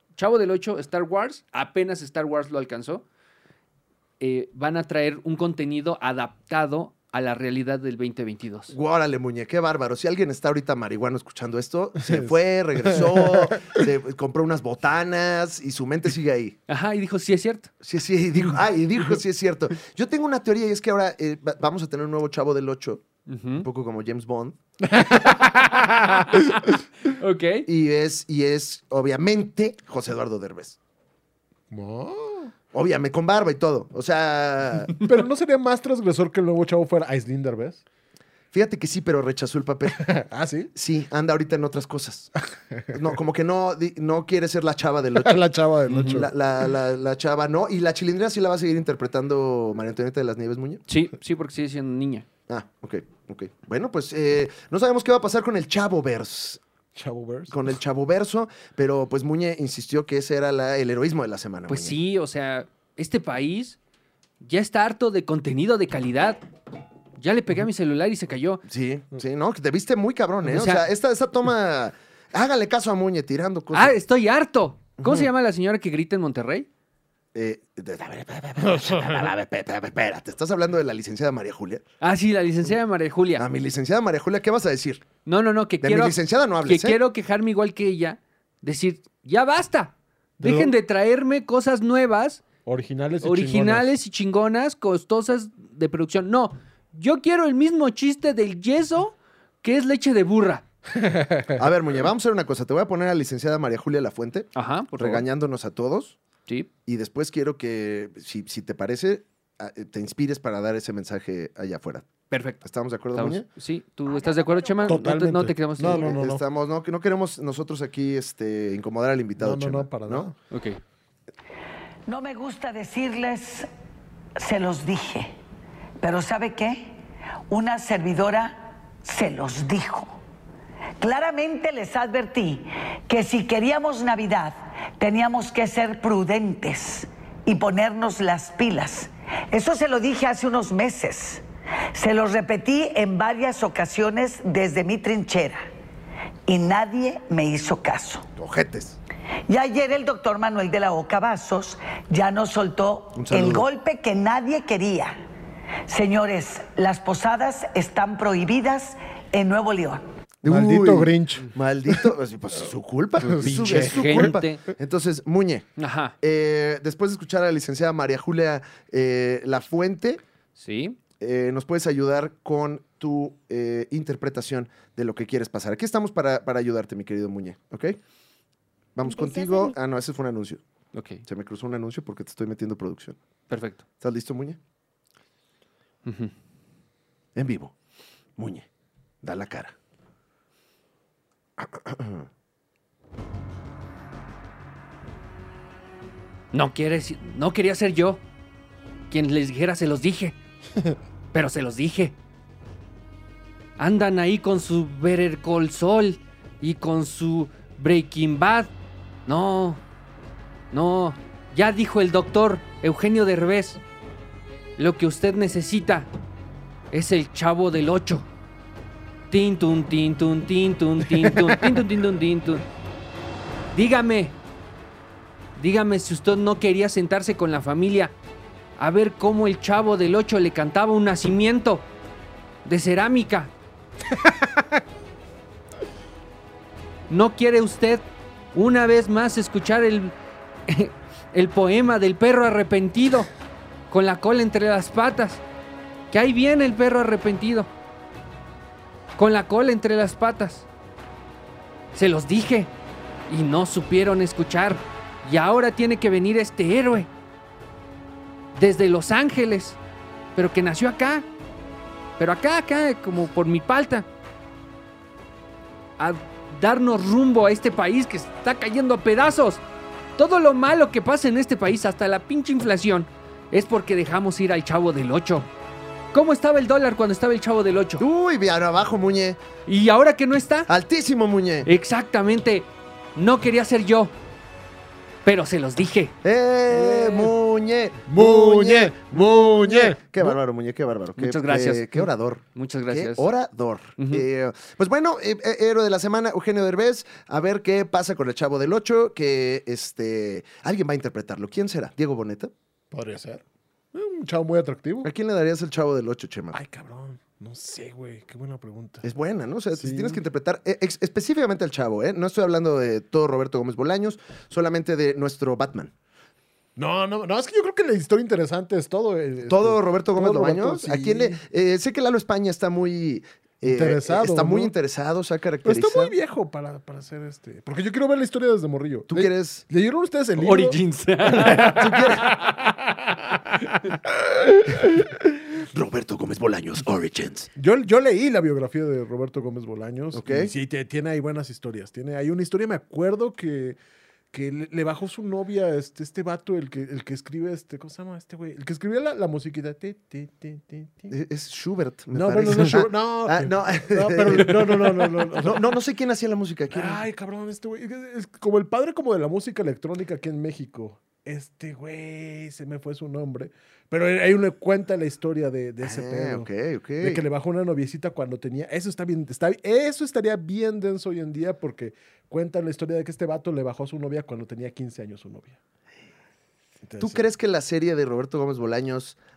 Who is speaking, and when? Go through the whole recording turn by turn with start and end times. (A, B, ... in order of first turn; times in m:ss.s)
0:00.2-0:03.0 A
0:04.2-0:08.7 A
0:08.7-0:16.6 B
0:12.0-0:12.3 C
0:12.8-0:13.7 C
0:16.7-0:17.7 A
0:17.8-0:23.0 B
0:23.3-0:23.7 A
0:23.6-0:24.6 B
0:24.9-0:26.4 C
0:25.2-0:27.7 A
0:27.7-0:30.8 B
0:31.7-0:32.5 C
0:32.7-0:34.9 B
0:35.0-0:37.8 C
0:38.5-0:40.1 B
0:40.0-0:40.7 C
0:40.8-0:42.3 B
0:42.7-0:43.0 C
0:42.9-0:45.4 B
0:45.1-0:46.3 C
0:45.9-0:46.2 A
0:46.0-0:50.8 B
0:50.9-0:52.3 A
0:52.5-0:56.6 B
0:57.0-0:57.6 C
0:57.5-1:02.0 B
1:01.7-1:03.8 A
1:04.4-1:06.4 A
1:07.2-1:08.6 A
1:08.6-1:14.0 B
1:10.4-1:10.9 A
1:13.7-1:16.7 A
1:15.0-1:15.3 B
1:17.3-1:21.8 B
1:18.8-1:19.1 C
1:22.0-1:23.5 A
1:23.4-1:25.0 B
1:25.2-1:32.4 A
1:25.8-1:27.0 B
1:30.4-1:30.7 C
1:32.6-1:33.9 C
1:33.2-1:40.6 A
1:40.9-1:41.6 C
1:41.6-1:46.2 B
1:44.6-1:45.2 A
1:46.9-1:52.1 B
1:52.3-1:56.2 A
1:52.6-1:53.5 B
1:54.1-1:54.9 D
1:54.8-1:56.4 C
1:55.9-2:00.3 B
1:59.4-2:00.4 C
2:00.5-2:00.8 A
2:02.1-2:03.7 D
2:04.4-2:05.3 D
2:06.0-2:07.0 D
2:07.5-2:10.2 D
2:11.0-2:25.7 D
2:26.5-2:28.3 D
2:28.4-2:29.0 B
2:29.5-2:35.2 D
2:33.1-2:33.7 B
2:35.9-2:40.0 D
2:40.4-2:45.7 B
2:40.4-2:42.1 C
2:43.2-2:44.4 C
2:43.4-2:44.6 A
2:45.8-2:46.1 A
2:46.2-2:50.2 B
2:50.6-2:51.0 A
2:51.2-2:58.0 B
2:59.0-3:00.6 B
3:00.9-3:01.2 A
3:01.2-3:03.2 B
3:03.5-3:03.8 A
3:04.0-3:04.6 B
3:06.0-3:06.3 A
3:07.4-3:07.7 B
3:08.4-3:08.7 B
3:09.2-3:09.8 B
3:11.6-3:12.3 B
3:16.5-3:18.2 A
3:19.1-3:20.4 A
3:21.3-3:22.1 A
3:23.8-3:28.7 A
3:29.3-3:29.8 A
3:30.7-3:33.8 A
3:34.8-3:36.1 A
3:36.9-3:38.3 A
3:39.3-3:42.6 A
3:43.8-3:44.4 A
3:45.6-3:48.1 A
3:48.8-3:51.9 A
3:52.6-3:53.5 A
3:57.1-4:00.2 A
4:00.7-4:03.3 A
4:03.9-4:05.4 A
4:06.1-4:07.7 A
4:09.2-4:10.7 A
4:11.9-4:12.7 A
4:13.3-4:17.1 A
4:18.6-4:19.8 A
4:20.4-4:21.3 A
4:22.2-4:24.1 A
4:26.0-4:29.6 A
4:30.2-4:35.5 A
4:36.1-4:38.0 A
4:38.0-4:39.4 B
4:39.7-4:40.7 A
4:40.7-4:41.7 B
4:41.6-4:44.1 A
4:45.2-4:46.1 A
4:46.2-5:02.5 B
4:46.7-4:47.3 A
4:48.1-4:50.4 C
4:51.2-4:53.3 A
4:54.0-4:54.2 A
5:02.9-5:03.4 C
5:03.9-5:05.1 C
5:05.0-5:06.6 B
5:06.5-5:09.1 C
5:09.0-5:15.9 B
5:09.8-5:10.2 C
5:16.8-5:21.4 C
5:19.5-5:26.1 B
5:23.6-5:24.7 C
5:25.6-5:35.4 C
5:29.1-5:29.6 B
5:30.4-5:32.4 A
5:31.5-5:32.3 B
5:35.6-5:37.5 B
5:37.6-5:43.8 C
5:40.1-5:40.5 B
5:44.3-5:51.1 C
5:51.1-5:57.0 B
5:52.1-5:55.8 C
5:56.7-6:06.5 C
6:05.8-6:07.2 B
6:07.0-6:15.6 C
6:16.9-6:17.2 C
6:17.0-6:19.2 B